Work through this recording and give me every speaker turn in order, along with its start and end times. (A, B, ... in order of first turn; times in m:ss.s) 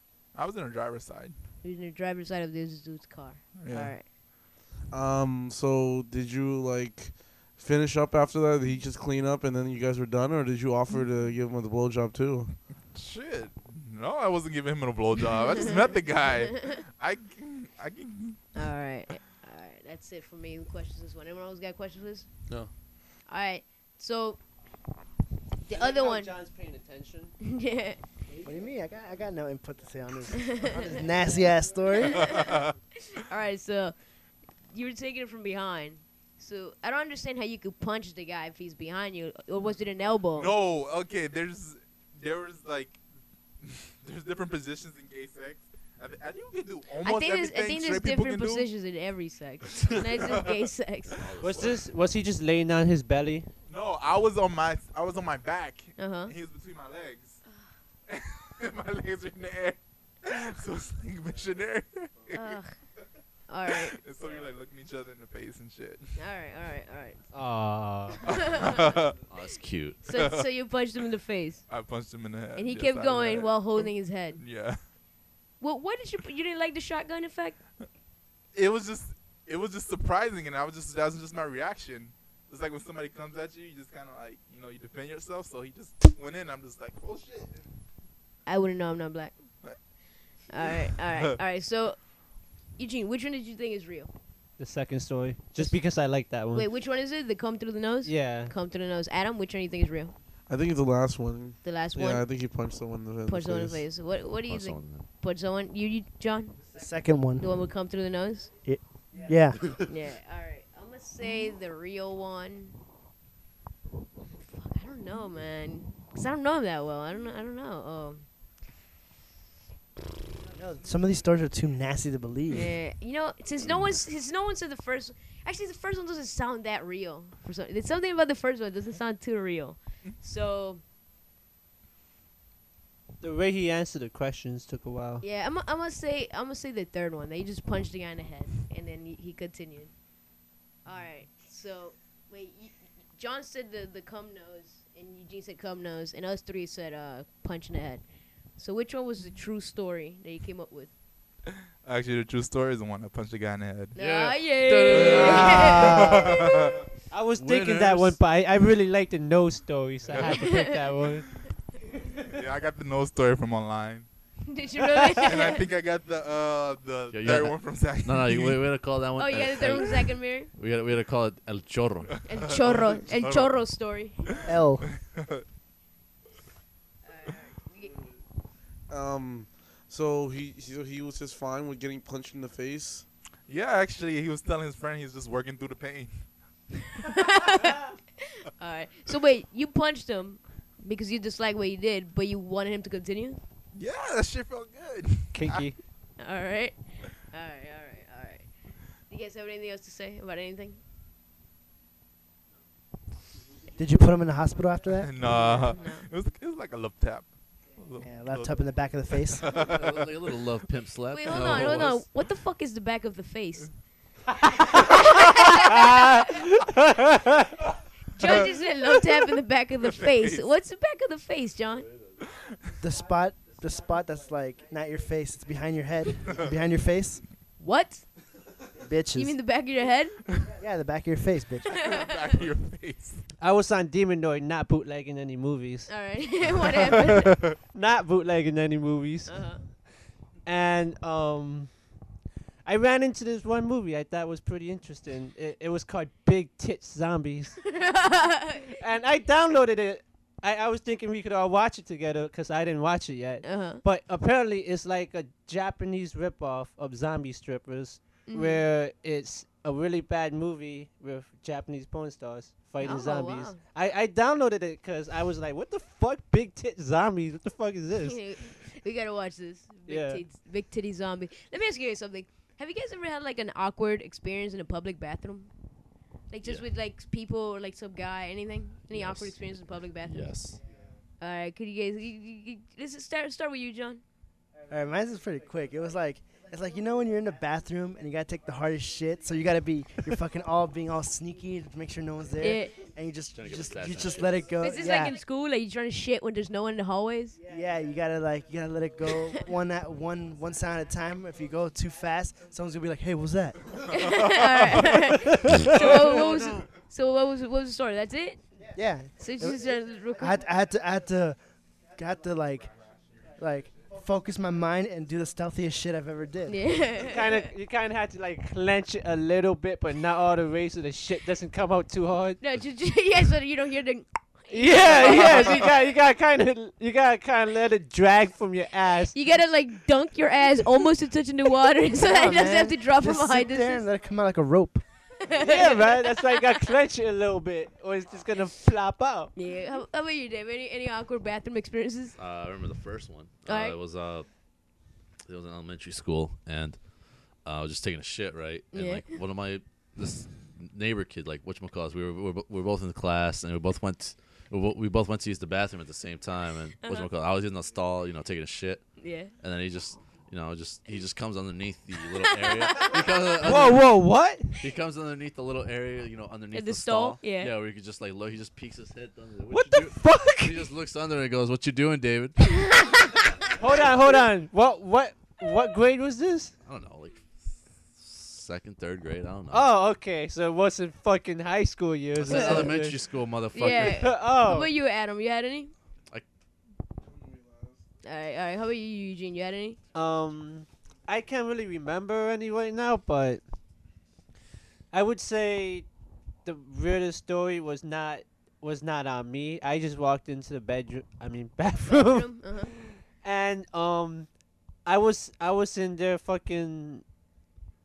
0:00.3-0:01.3 A
0:01.6-0:04.0 B
0:03.5-0:04.0 A
0:04.9-0:12.6 C
0:12.9-0:18.6 A
0:18.6-0:22.3 B
0:23.2-0:24.4 B
0:25.7-0:27.3 D
0:25.7-0:26.3 B
0:27.4-0:28.0 B
0:28.4-0:32.5 E
0:30.4-0:31.0 B
0:31.9-0:32.6 B
0:32.2-0:32.7 A
0:33.1-0:33.9 B
0:34.7-0:40.5 B
0:40.3-0:43.0 A
0:43.6-0:48.7 A
0:47.0-0:51.2 B
0:49.8-0:51.2 A
0:51.1-0:51.8 F
0:51.4-0:53.5 D
0:53.7-0:57.4 A
0:56.0-0:56.3 B
0:58.1-1:02.6 A
1:00.3-1:00.6 B
1:02.3-1:02.8 B
1:03.5-1:04.0 B
1:03.7-1:06.1 A
1:06.2-1:07.2 B
1:07.3-1:08.2 D
1:08.2-1:09.0 B
1:08.2-1:09.2 A
1:09.3-1:10.0 F
1:10.0-1:11.6 B
1:10.1-1:10.5 A
1:11.7-1:14.8 A
1:12.6-1:14.4 B
1:15.6-1:17.6 B
1:18.5-1:27.6 A
1:28.4-1:29.3 B
1:30.5-1:32.0 B
1:30.6-1:31.4 A
1:32.8-1:34.1 B
1:34.6-1:36.7 D
1:36.5-1:40.1 B
1:38.0-1:38.5 D
1:40.5-1:43.8 C
1:41.6-1:42.3 B
1:43.2-1:46.6 B
1:44.5-1:45.0 F
1:46.7-1:47.4 E
1:47.4-1:48.5 B
1:48.6-1:49.8 E
1:49.8-1:52.8 B
1:54.4-1:58.2 B
2:00.5-2:02.7 E
2:02.5-2:10.8 B
2:13.2-2:15.2 D
2:15.2-2:19.9 B
2:20.8-2:28.0 B
2:28.6-2:30.9 B
2:31.8-2:34.0 A
2:33.9-2:36.6 B
2:34.0-2:35.9 F
2:34.9-2:36.8 A
2:35.0-2:36.4 D
2:37.1-2:41.3 D
2:37.4-2:38.2 F
2:40.1-2:40.6 A
2:40.2-2:40.8 B
2:42.3-2:44.1 A
2:44.5-2:45.6 B
2:45.2-2:48.6 A
2:47.1-2:52.2 F
2:49.2-2:50.5 B
2:52.2-2:54.4 B
2:52.3-2:53.6 A
2:54.4-2:55.4 A
2:54.4-2:54.8 E
2:57.0-2:57.9 B
2:58.9-3:03.1 C
3:03.5-3:06.1 A
3:06.9-3:13.4 B
3:13.7-3:15.6 A
3:15.3-3:15.8 D
3:16.2-3:18.5 B
3:19.1-3:20.8 B
3:23.8-3:25.4 E
3:25.0-3:28.6 A
3:25.2-3:26.1 B
3:28.0-3:29.5 E
3:29.3-3:30.1 A
3:29.7-3:32.0 F
3:31.1-3:33.7 B
3:31.3-3:31.9 A
3:34.4-3:34.9 D
3:34.7-3:36.4 B
3:35.6-3:37.5 D
3:38.1-3:41.9 B
3:38.2-3:38.5 A
3:39.8-3:40.5 A
3:42.8-3:47.2 E
3:47.6-3:48.0 B
3:48.8-3:49.4 E
3:49.1-3:50.2 B
3:50.5-3:51.8 E
3:51.7-3:52.1 B
3:51.8-3:53.2 A
3:53.4-3:55.9 D
3:55.9-3:57.4 B
3:56.8-3:57.6 A
3:57.7-3:59.4 D
3:59.3-3:59.6 B
4:00.4-4:01.7 D
4:02.6-4:07.7 D
4:07.6-4:08.8 B
4:08.7-4:28.2 D
4:13.4-4:13.8 B
4:18.3-4:18.6 B
4:22.8-4:23.6 B
4:28.0-4:35.5 B
4:29.9-4:30.2 D
4:36.3-4:40.3 B
4:38.9-4:39.4 F
4:40.0-4:40.6 F
4:41.2-4:44.0 B
4:44.7-4:55.2 E
4:52.4-4:52.8 B
4:53.3-4:54.5 F
4:54.6-4:57.4 B
4:57.4-5:03.8 E
5:03.9-5:08.4 B
5:04.0-5:05.0 A
5:05.5-5:06.2 D
5:08.7-5:11.4 E
5:09.2-5:10.4 B
5:11.9-5:12.7 E
5:13.4-5:16.6 E
5:16.5-5:17.5 B
5:17.0-5:22.4 D
5:22.4-5:25.6 B
5:24.5-5:29.1 D
5:25.0-5:25.5 A
5:29.1-5:33.8 B
5:31.9-5:34.8 E
5:35.2-5:36.4 B
5:35.4-5:39.3 D
5:39.3-5:42.2 B
5:42.2-5:44.3 F
5:43.4-5:43.8 B
5:45.2-5:46.8 F
5:47.4-6:04.1 F
5:48.7-5:49.2 B
5:56.8-5:57.1 B
5:59.0-5:59.3 B
6:02.4-6:02.9 B
6:03.4-6:04.6 D
6:04.6-6:12.6 F
6:06.5-6:07.5 B
6:09.5-6:10.6 D
6:12.7-6:13.1 B
6:13.6-6:16.5 D
6:16.6-6:17.2 F
6:18.0-6:19.7 F
6:19.5-6:23.0 D
6:22.2-6:24.1 F
6:22.3-6:22.7 B
6:23.5-6:25.7 B
6:23.6-6:24.7 D
6:27.0-6:27.8 C
6:28.0-6:29.8 B
6:29.9-6:33.4 D
6:34.9-6:35.9 D
6:36.4-6:44.3 D
6:41.8-6:42.7 B
6:44.8-6:47.0 D